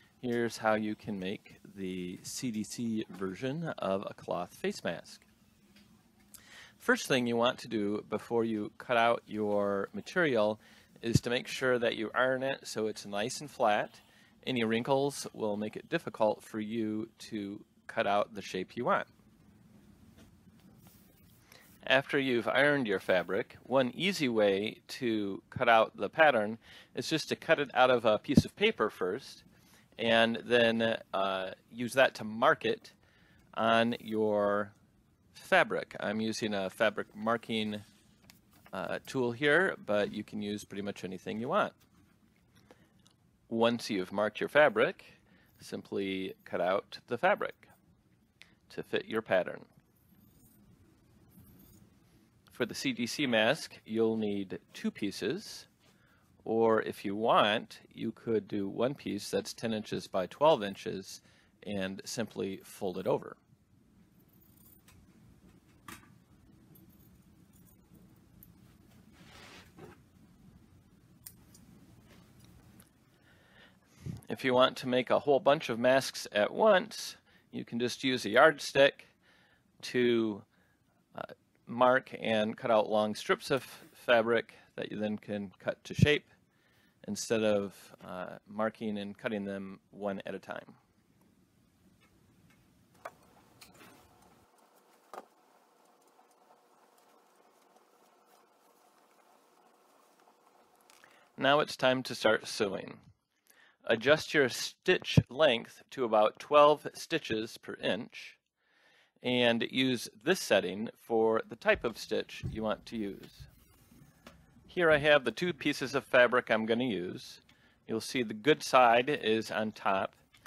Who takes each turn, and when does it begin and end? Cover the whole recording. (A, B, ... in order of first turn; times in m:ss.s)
0:00.2-0:05.3 A
0:06.8-0:19.1 A
0:21.8-0:29.4 A
0:30.0-0:33.0 A
0:33.6-0:34.7 A
0:35.3-0:37.8 A
0:38.7-0:41.8 A
0:43.5-0:47.7 A
0:48.7-0:49.7 A
0:52.5-0:55.7 A
0:56.4-1:03.4 A
1:14.3-1:19.1 A
1:19.8-1:20.4 A
1:21.1-1:26.3 A
1:27.0-1:30.8 A
1:41.4-1:43.0 A
1:43.9-1:48.4 A
1:49.2-1:53.5 A
1:54.7-2:00.2 A